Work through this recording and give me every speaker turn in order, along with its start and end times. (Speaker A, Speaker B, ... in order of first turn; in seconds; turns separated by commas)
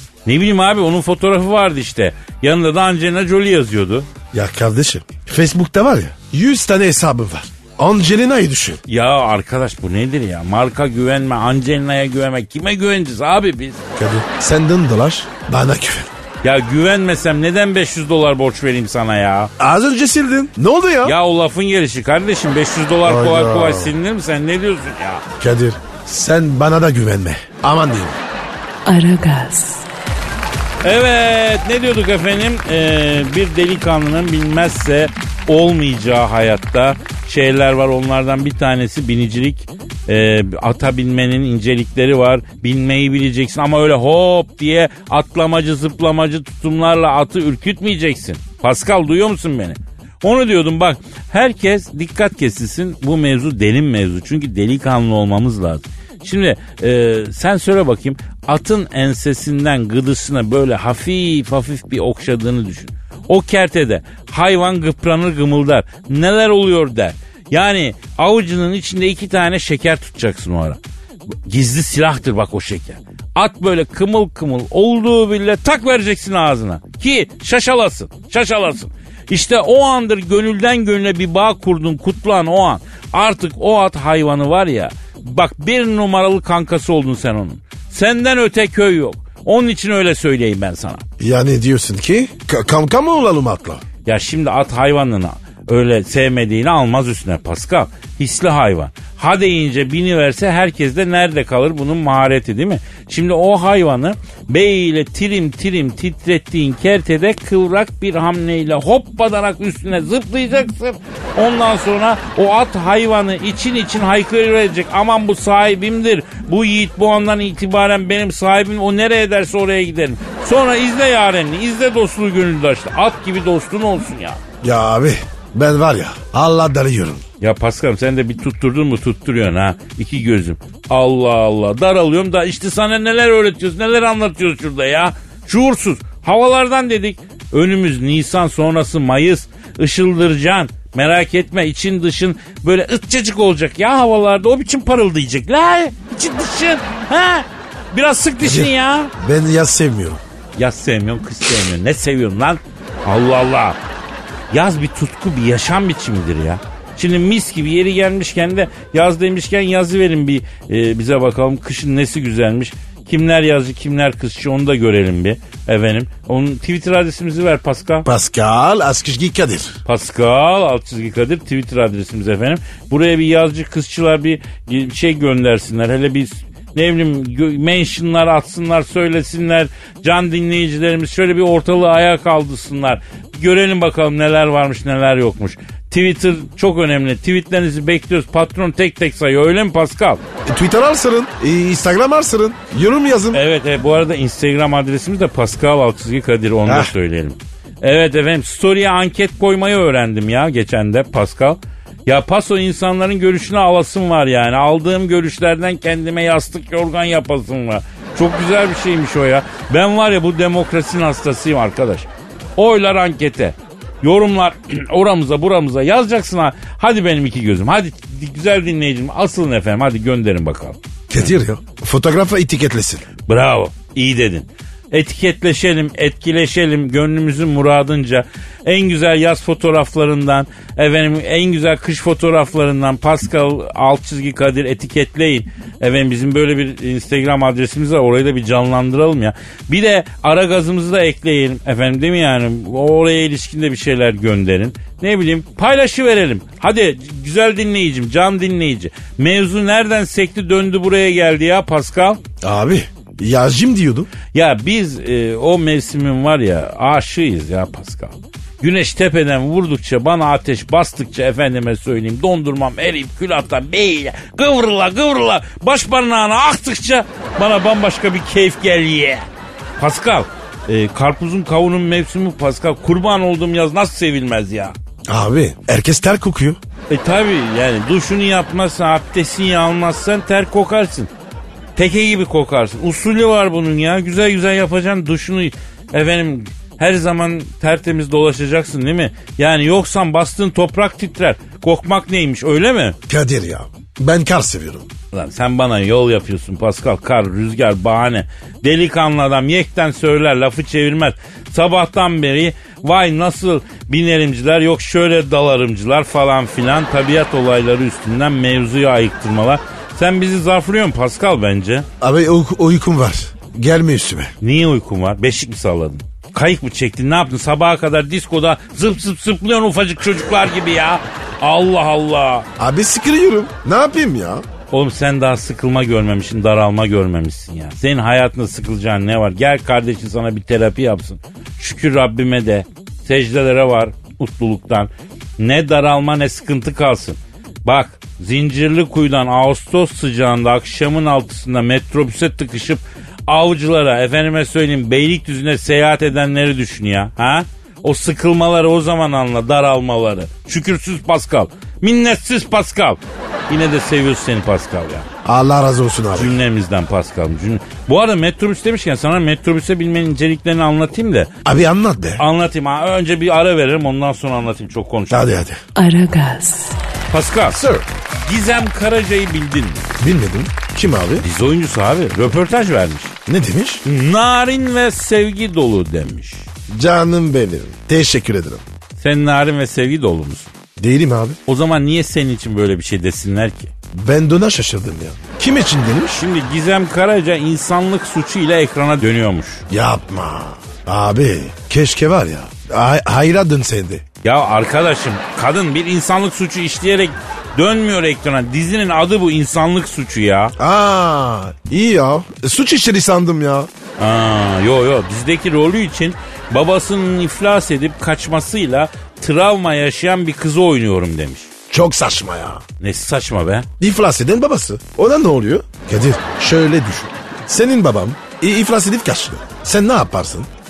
Speaker A: 0.2-4.1, Speaker B: 4.3-8.8, Speaker A: 8.9-13.8, Speaker B: 14.0-16.1, Speaker A: 16.4-19.5, Speaker B: 19.6-21.1, Speaker A: 21.0-25.2, Speaker B: 23.0-23.9, Speaker B: 25.4-28.2, Speaker C: 28.9-29.8, Speaker A: 30.8-70.8, Speaker A: 71.5-91.0, Speaker B: 91.2-93.8, Speaker A: 94.0-124.4, Speaker B: 124.6-127.2, Speaker A: 127.4-149.1, Speaker B: 148.4-150.2, Speaker A: 150.6-153.8, Speaker A: 154.5-168.1, Speaker B: 168.0-169.8, Speaker A: 169.8-190.2, Speaker B: 190.5-193.4, Speaker A: 193.3-221.3, Speaker B: 196.7-196.9, Speaker B: 221.1-223.1, Speaker A: 223.3-252.2, Speaker B: 252.4-254.1, Speaker A: 254.3-269.2, Speaker A: 269.8-274.7, Speaker B: 275.1-276.6, Speaker A: 276.9-281.1, Speaker A: 281.8-293.0, Speaker B: 293.1-294.9, Speaker A: 295.1-311.9, Speaker B: 312.0-314.3, Speaker A: 314.4-322.5, Speaker B: 322.6-324.4, Speaker A: 324.7-355.1, Speaker B: 355.2-356.4, Speaker A: 356.1-361.3, Speaker B: 361.4-362.2, Speaker A: 362.2-365.3, Speaker B: 365.1-365.6, Speaker C: 365.7-366.8, Speaker A: 367.1-367.6, Speaker B: 367.5-367.9, Speaker A: 368.2-369.9, Speaker B: 370.0-371.2, Speaker A: 371.2-373.1, Speaker B: 373.2-373.8, Speaker A: 373.8-376.5, Speaker B: 376.7-378.6, Speaker A: 379.0-380.5, Speaker B: 380.8-381.4, Speaker A: 381.5-383.7, Speaker B: 383.9-386.2, Speaker A: 386.1-389.6, Speaker B: 389.7-394.0, Speaker A: 394.2-400.5, Speaker B: 400.6-403.7, Speaker A: 404.0-411.5, Speaker B: 411.7-412.6, Speaker A: 412.8-413.7, Speaker B: 413.8-420.5